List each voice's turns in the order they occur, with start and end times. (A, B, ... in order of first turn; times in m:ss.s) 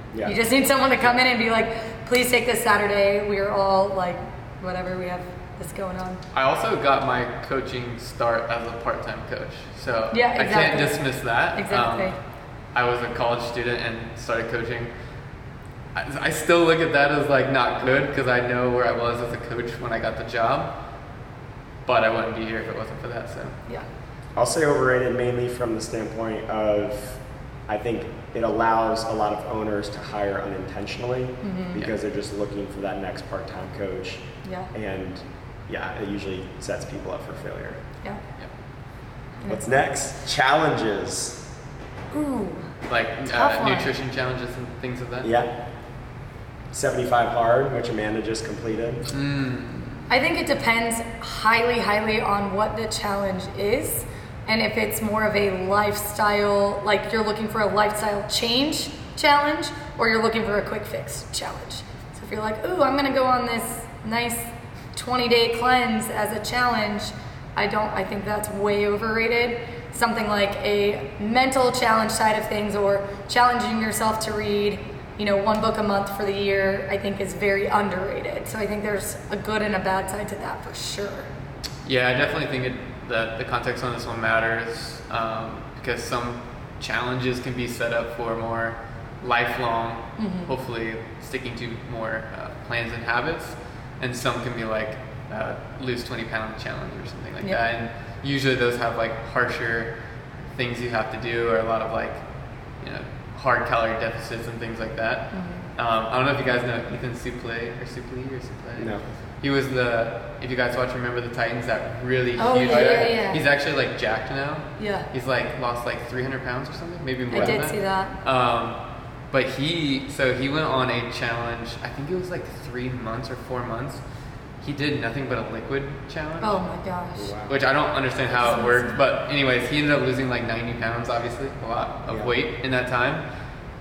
0:00.2-0:06.2 A
0:06.3-0:12.2 B
0:10.1-0:11.0 A
0:11.5-0:12.1 A
0:12.7-0:14.9 B
0:15.9-0:20.7 B
0:21.8-0:23.6 B
0:24.4-0:37.8 C
0:31.4-0:31.8 A
0:34.4-0:34.7 A
0:39.5-0:41.4 C
0:42.1-0:42.7 A
0:42.9-0:45.3 B
0:43.3-0:43.9 A
0:45.2-0:45.5 C
0:46.7-0:49.1 C
0:49.1-0:50.1 B
0:50.1-1:21.3 A
1:21.8-1:39.9 B
1:30.2-1:30.5 A
1:40.5-1:42.2 B
1:42.8-1:58.8 B
1:45.3-1:45.7 A
1:48.8-1:49.0 C
1:52.4-1:53.4 A
1:54.8-1:55.1 A
1:57.3-1:58.2 A
1:59.3-2:04.0 B
2:04.6-2:06.6 B
2:06.4-2:07.3 A
2:07.2-2:07.6 C
2:07.5-2:13.2 B
2:08.3-2:09.0 A